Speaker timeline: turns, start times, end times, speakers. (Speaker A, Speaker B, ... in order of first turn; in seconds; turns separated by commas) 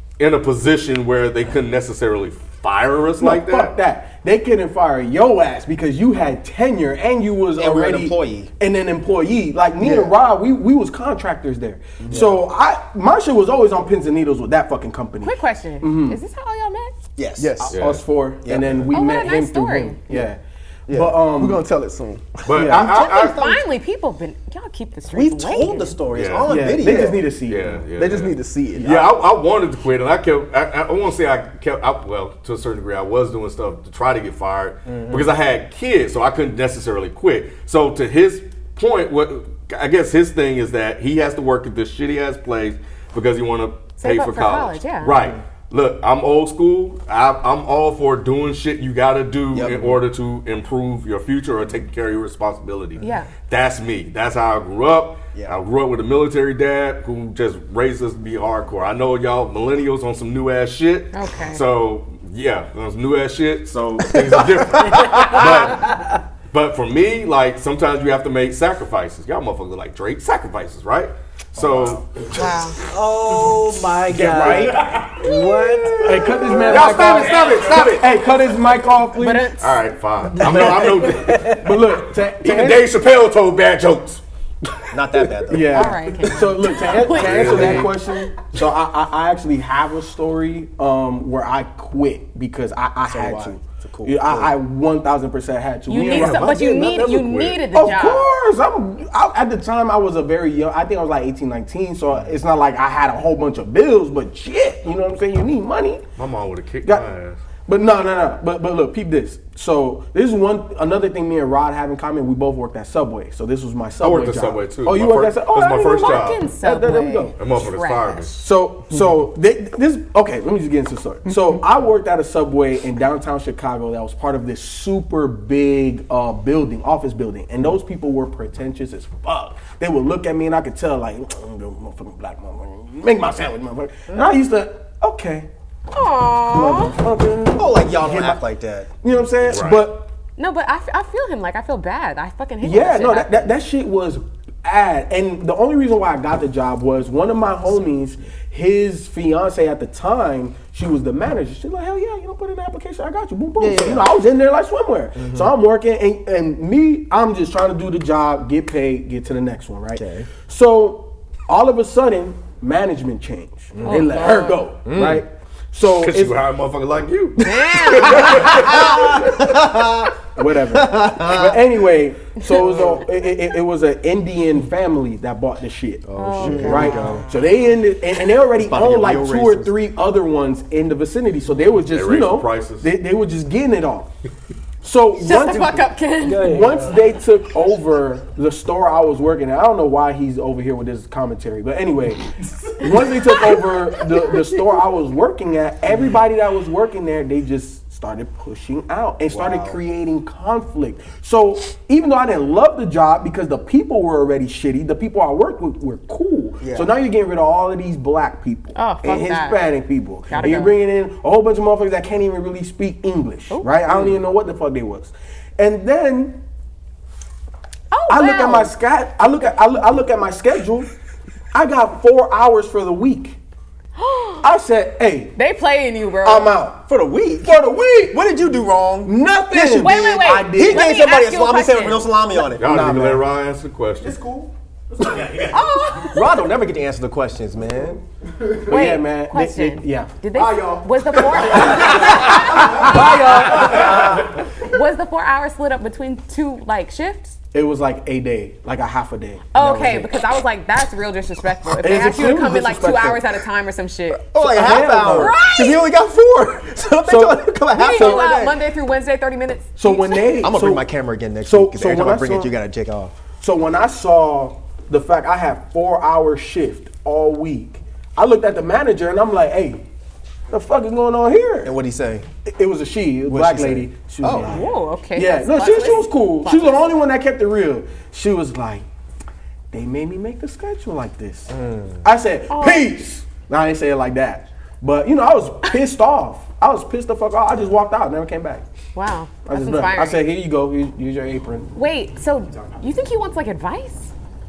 Speaker A: 0.2-3.7, Speaker B: 3.2-16.2, Speaker C: 7.6-8.5, Speaker D: 9.8-10.1, Speaker C: 12.0-12.3, Speaker E: 15.2-16.9, Speaker C: 17.2-17.8, Speaker D: 17.4-17.8, Speaker B: 17.7-21.6, Speaker A: 17.7-18.0, Speaker C: 18.4-18.9, Speaker E: 18.9-20.0, Speaker D: 21.4-22.6, Speaker A: 22.4-23.6, Speaker B: 22.5-23.0, Speaker C: 22.8-23.6, Speaker E: 22.8-26.0, Speaker C: 25.1-27.3, Speaker A: 26.1-26.7, Speaker B: 26.4-27.8, Speaker A: 27.5-72.6, Speaker D: 27.9-29.1, Speaker C: 34.9-35.3, Speaker E: 44.0-45.2, Speaker C: 45.1-45.4, Speaker C: 49.5-50.0, Speaker E: 53.0-53.3, Speaker C: 55.3-55.6, Speaker E: 61.1-61.6, Speaker F: 64.9-66.0, Speaker C: 71.6-72.0, Speaker E: 72.3-72.8, Speaker F: 72.8-77.0, Speaker B: 74.1-75.1, Speaker A: 74.5-75.5, Speaker B: 76.0-79.5, Speaker A: 76.7-78.3, Speaker E: 79.2-79.8, Speaker A: 79.6-84.2, Speaker F: 80.3-81.7, Speaker B: 80.5-82.9, Speaker C: 84.9-86.2, Speaker B: 85.5-97.2, Speaker E: 85.6-88.0, Speaker A: 86.9-88.0, Speaker C: 93.0-94.6, Speaker E: 95.9-98.3, Speaker A: 95.9-97.6, Speaker B: 97.7-106.0, Speaker A: 106.2-107.4, Speaker B: 107.7-117.4, Speaker A: 114.0-116.5, Speaker E: 115.8-118.4, Speaker A: 117.4-118.4, Speaker B: 118.4-135.5, Speaker E: 135.9-137.0, Speaker B: 136.5-138.4, Speaker C: 137.6-138.9, Speaker B: 139.0-140.1, Speaker A: 139.5-139.9, Speaker E: 140.4-143.5, Speaker B: 142.6-166.4, Speaker C: 153.6-154.1, Speaker C: 155.2-155.5, Speaker C: 159.9-160.3, Speaker C: 163.7-164.3, Speaker E: 163.8-164.7, Speaker C: 164.8-165.2, Speaker A: 165.9-169.3, Speaker E: 167.4-168.6, Speaker C: 168.1-171.7, Speaker B: 170.4-184.1, Speaker E: 172.4-172.9, Speaker C: 176.1-177.3, Speaker E: 176.2-177.2, Speaker C: 178.6-179.8, Speaker A: 181.9-182.9, Speaker B: 184.8-216.4, Speaker E: 185.2-186.7, Speaker F: 186.2-187.1, Speaker E: 192.8-194.6, Speaker C: 199.3-199.8, Speaker C: 206.6-206.9, Speaker E: 208.8-209.6, Speaker E: 210.3-210.8, Speaker E: 217.9-218.7, Speaker B: 218.1-220.9, Speaker B: 221.5-223.4, Speaker E: 224.0-224.5, Speaker B: 224.4-225.3, Speaker E: 225.3-226.6, Speaker B: 226.2-226.9, Speaker C: 226.9-232.9, Speaker B: 227.4-228.2, Speaker B: 229.0-231.0, Speaker E: 229.8-232.1, Speaker B: 232.4-233.3, Speaker A: 232.6-234.2, Speaker B: 234.0-235.6, Speaker E: 235.3-236.3, Speaker C: 236.1-238.0, Speaker B: 238.5-244.3, Speaker E: 238.7-247.4, Speaker B: 247.5-250.1, Speaker E: 249.5-254.3, Speaker B: 251.8-253.3, Speaker C: 254.2-258.6, Speaker B: 254.4-255.5, Speaker E: 255.0-255.9, Speaker B: 257.1-258.3, Speaker E: 257.7-260.5, Speaker B: 259.8-260.9, Speaker C: 260.4-263.2, Speaker B: 261.4-262.5, Speaker B: 263.4-269.8, Speaker B: 270.5-271.8, Speaker C: 271.6-272.3, Speaker B: 272.4-278.9, Speaker C: 273.3-274.6, Speaker E: 274.4-276.9, Speaker B: 279.7-281.5, Speaker C: 281.5-282.1, Speaker B: 282.0-288.6, Speaker E: 282.5-283.0, Speaker E: 288.9-290.2, Speaker B: 289.5-291.7, Speaker E: 291.7-294.1